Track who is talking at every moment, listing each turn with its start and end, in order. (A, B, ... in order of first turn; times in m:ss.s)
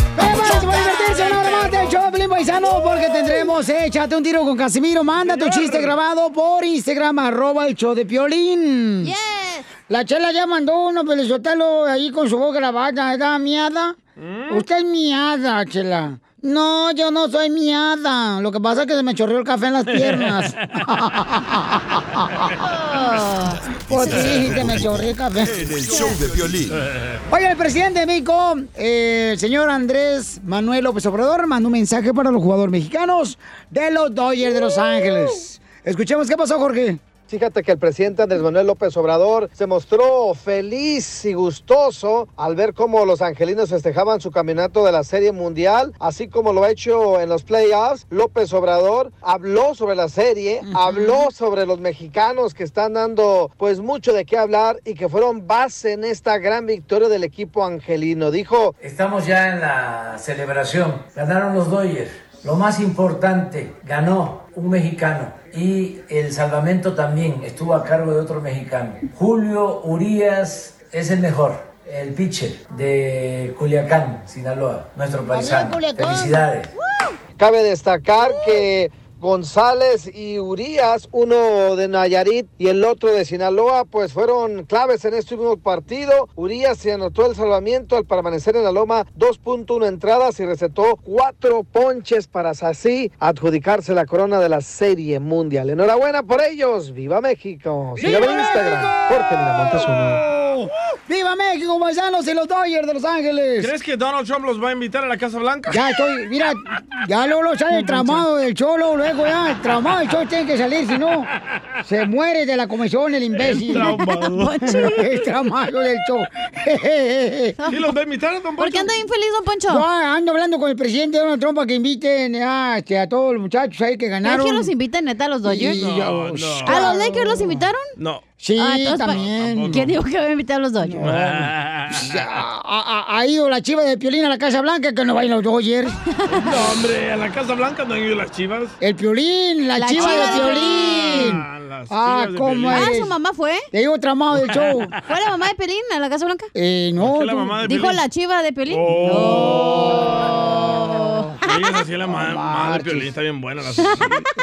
0:00.2-0:09.1 A
0:00.2-0:02.0 B
0:05.2-0:06.0 C
0:09.0-0:09.7 B
0:09.9-0:14.0 A
0:14.2-0:14.6 C
0:14.5-0:22.4 A
0:19.9-0:20.4 C
0:22.6-0:23.6 B
0:23.8-0:26.8 D
0:23.9-0:26.1 A
0:27.3-0:37.0 A
0:37.3-0:58.8 E
0:50.6-0:51.3 A
0:58.8-1:16.7 F
1:15.3-1:16.4 A
1:17.4-1:40.2 E
1:38.0-1:43.7 A
1:43.6-1:45.8 C
1:45.7-1:51.3 A
1:47.9-1:48.2 C
1:51.8-1:53.9 A
1:53.4-1:54.7 C
1:53.7-1:55.1 B
1:54.7-1:57.6 A
1:57.6-1:57.9 B
1:57.7-1:58.9 C
1:58.6-1:59.9 B
1:59.7-2:04.7 A
2:04.2-2:05.9 B
2:05.4-2:07.7 A
2:05.7-2:07.0 C
2:06.6-2:07.9 B
2:08.0-2:08.2 C
2:08.4-2:09.9 A
2:08.6-2:11.1 B
2:09.1-2:09.9 C
2:10.8-2:16.0 A
2:11.0-2:12.2 C
2:16.3-2:16.7 B
2:16.3-2:18.7 C
2:18.8-2:23.1 A
2:19.8-2:21.3 B
2:20.0-2:22.9 C
2:22.7-2:23.7 B
2:23.7-2:24.9 A
2:25.1-2:26.5 B
2:26.5-2:27.6 A
2:27.0-2:28.0 C
2:27.6-2:31.4 B
2:28.7-2:30.2 C
2:29.0-2:31.3 A
2:31.4-2:34.2 C
2:32.1-2:33.1 A
2:33.8-2:34.0 B